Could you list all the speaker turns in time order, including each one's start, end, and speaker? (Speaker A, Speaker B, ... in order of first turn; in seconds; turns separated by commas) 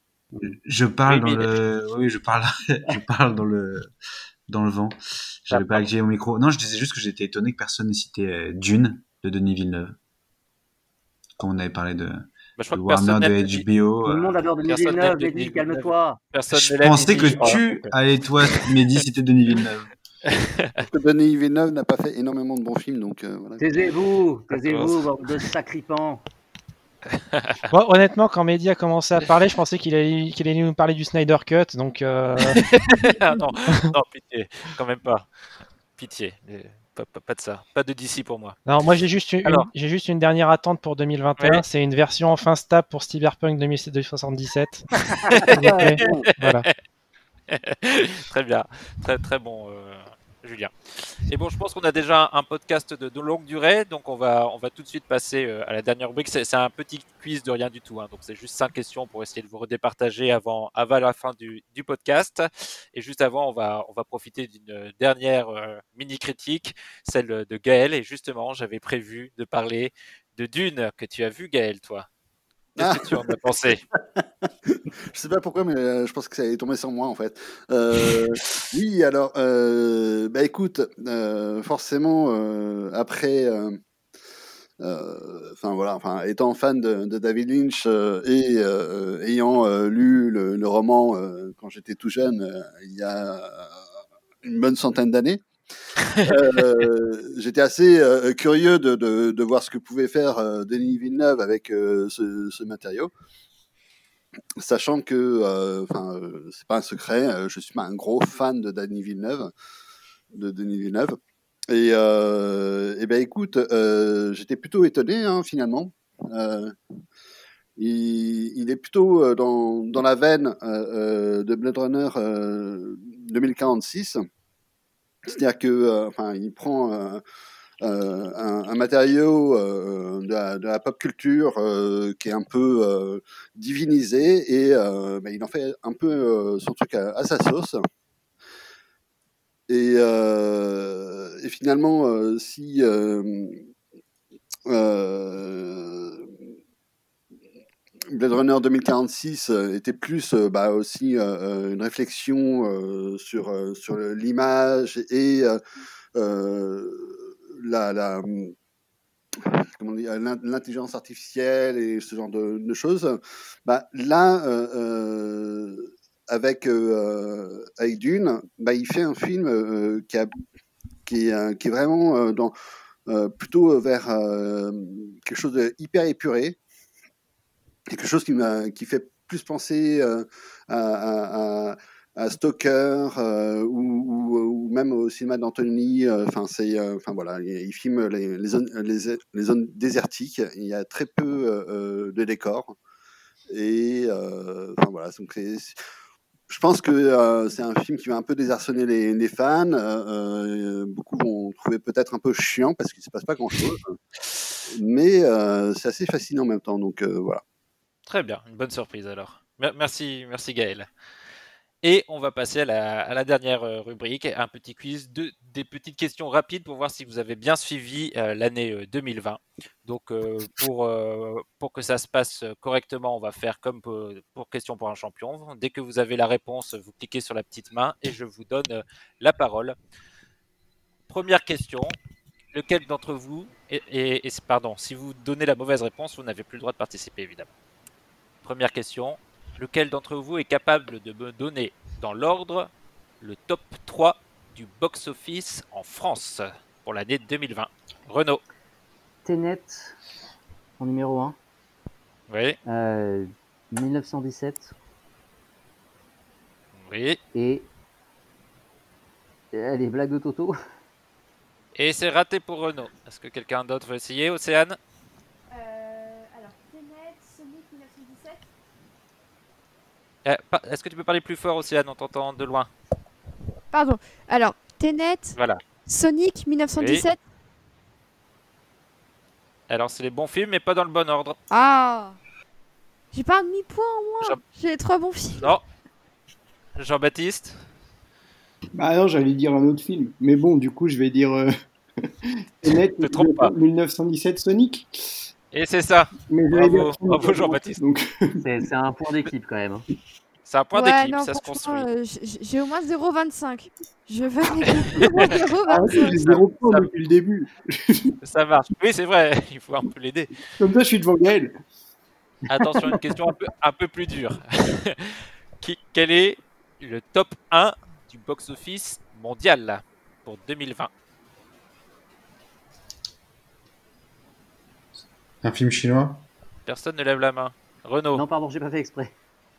Speaker A: 0.5-3.9, Speaker B: 1.1-1.5, Speaker A: 4.5-9.9, Speaker B: 5.5-5.8, Speaker A: 11.4-14.4, Speaker B: 12.6-13.7, Speaker C: 14.0-16.2, Speaker B: 14.7-17.9, Speaker A: 16.5-19.9, Speaker C: 17.3-17.6, Speaker B: 20.3-20.8, Speaker D: 20.9-23.6, Speaker C: 23.6-26.2, Speaker B: 24.5-25.0, Speaker B: 27.3-27.6, Speaker E: 27.7-32.7, Speaker B: 32.5-35.2, Speaker B: 36.0-38.6, Speaker E: 38.7-44.9, Speaker C: 45.1-46.3, Speaker B: 45.3-46.7, Speaker E: 45.5-46.7, Speaker B: 47.5-50.7, Speaker B: 51.3-72.1, Speaker D: 72.8-73.3, Speaker B: 72.8-73.8, Speaker D: 74.2-83.8, Speaker D: 84.8-93.8, Speaker D: 94.4-95.4, Speaker D: 96.2-103.1, Speaker D: 104.6-109.5, Speaker D: 110.3-111.2, Speaker D: 111.7-116.7, Speaker D: 117.8-124.2, Speaker D: 125.3-127.2, Speaker D: 127.8-137.8, Speaker D: 139.7-143.6, Speaker D: 144.7-146.3, Speaker D: 148.1-155.6, Speaker D: 156.1-158.5, Speaker D: 159.4-170.3, Speaker D: 171.1-172.5, Speaker D: 173.1-176.6, Speaker D: 177.9-192.8, Speaker D: 193.5-195.8, Speaker D: 196.5-203.9, Speaker D: 204.7-207.4, Speaker B: 208.1-210.9, Speaker B: 211.8-229.8, Speaker B: 231.1-231.9, Speaker B: 232.5-237.5, Speaker B: 238.4-248.4, Speaker C: 249.2-250.0, Speaker C: 250.8-251.4, Speaker B: 252.3-252.6, Speaker C: 252.7-254.7, Speaker B: 256.8-257.2, Speaker C: 257.3-257.7, Speaker C: 259.5-260.6, Speaker B: 261.7-264.8, Speaker F: 265.5-268.5, Speaker B: 270.2-272.7, Speaker F: 273.7-277.2, Speaker B: 275.4-275.6, Speaker B: 276.8-277.0, Speaker B: 279.7-281.4, Speaker F: 281.5-282.2, Speaker F: 283.1-285.5, Speaker B: 285.4-285.6, Speaker B: 286.8-287.6, Speaker G: 288.7-291.5, Speaker G: 292.0-295.3, Speaker B: 292.6-293.5, Speaker B: 295.5-297.8, Speaker G: 296.3-298.4, Speaker C: 298.4-299.8, Speaker B: 300.4-301.9, Speaker F: 300.7-306.2, Speaker B: 305.0-305.3, Speaker G: 305.7-308.1, Speaker B: 306.0-306.9, Speaker B: 308.2-310.3, Speaker G: 310.6-311.5, Speaker B: 312.5-320.9, Speaker A: 325.4-326.2, Speaker B: 326.6-328.2, Speaker C: 328.1-329.1